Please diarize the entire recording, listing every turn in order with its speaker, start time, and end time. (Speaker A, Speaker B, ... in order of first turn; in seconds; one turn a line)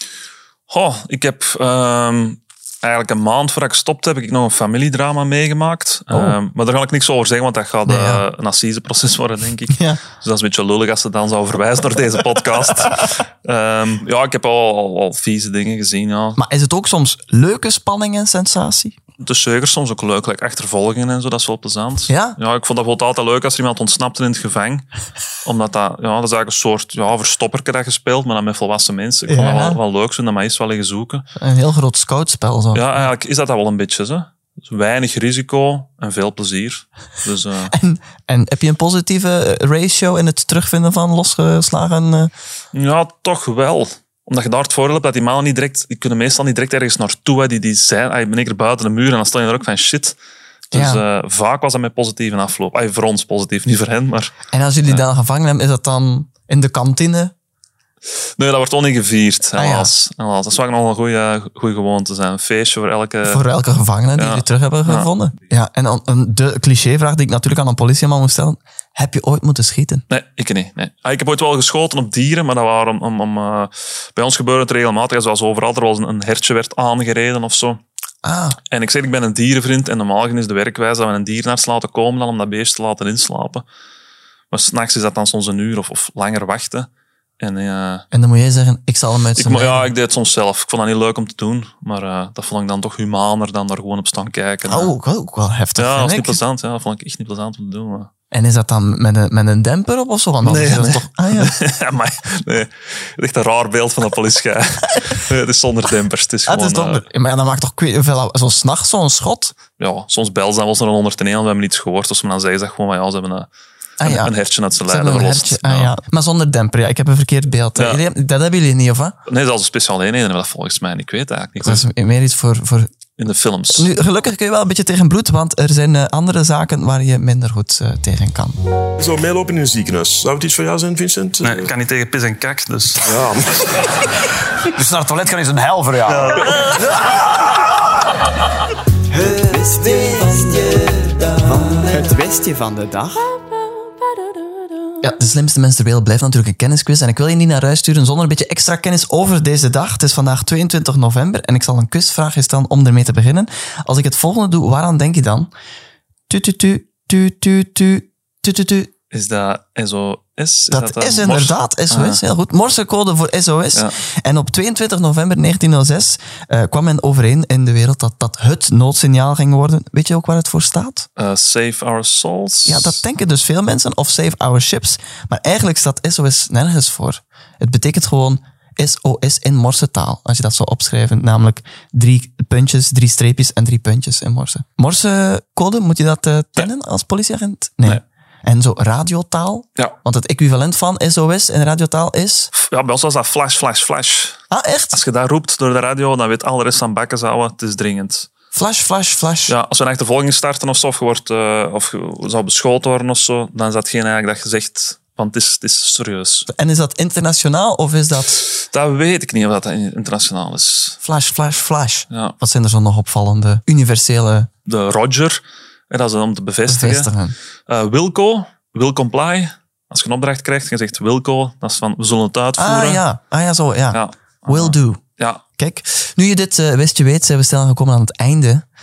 Speaker A: 0.7-16.4
Speaker B: 6.1-6.4
Speaker B: 7.8-8.3
Speaker B: 9.7-10.0
Speaker B: 16.4-19.0
Speaker A: 19.2-24.9
Speaker B: 22.1-22.4
Speaker A: 25.4-31.2
Speaker B: 29.3-29.8
Speaker B: 31.4-33.0
Speaker A: 32.7-37.7
Speaker B: 37.6-42.3
Speaker A: 42.7-50.2
Speaker A: 50.7-54.4
Speaker B: 50.7-51.0
Speaker B: 54.5-57.3
Speaker A: 58.4-63.4
Speaker B: 59.5-59.9
Speaker B: 63.2-70.0
Speaker A: 64.2-65.1
Speaker A: 70.1-77.8
Speaker B: 78.2-78.6
Speaker A: 78.7-83.6
Speaker A: 84.5-86.9
Speaker A: 87.4-88.0
Speaker B: 88.1-89.9
Speaker A: 89.4-94.9
Speaker B: 94.6-96.4
Speaker A: 95.8-98.1
Speaker B: 98.3-101.5
Speaker A: 100.4-107.0
Speaker B: 106.5-109.5
Speaker A: 109.8-113.5
Speaker B: 114.0-119.2
Speaker A: 114.0-116.0
Speaker A: 117.8-118.0
Speaker A: 119.2-121.9
Speaker B: 121.6-122.9
Speaker A: 123.2-123.9
Speaker B: 123.7-128.6
Speaker C: 129.0-131.7
Speaker D: 131.4-133.1
Speaker C: 133.0-133.6
Speaker E: 134.7-136.8
Speaker D: 136.1-136.8
Speaker B: 139.1-143.3
Speaker B: 145.0-155.5
Speaker B: 156.3-158.9
Speaker A: 159.1-162.2
Speaker B: 160.7-171.1
Speaker A: 171.2-173.0
Speaker B: 172.7-192.5
Speaker A: 192.5-198.3
Speaker B: 194.5-195.0
Speaker B: 198.5-199.5
Speaker A: 199.5-206.5
Speaker B: 206.5-208.4
Speaker A: 208.5-211.0
Speaker B: 211.0-214.5
Speaker A: 212.1-212.3
Speaker A: 214.7-217.1
Speaker B: 216.7-217.4
Speaker A: 217.7-223.0
Speaker B: 222.6-225.0
Speaker A: 223.9-225.4
Speaker B: 225.6-228.6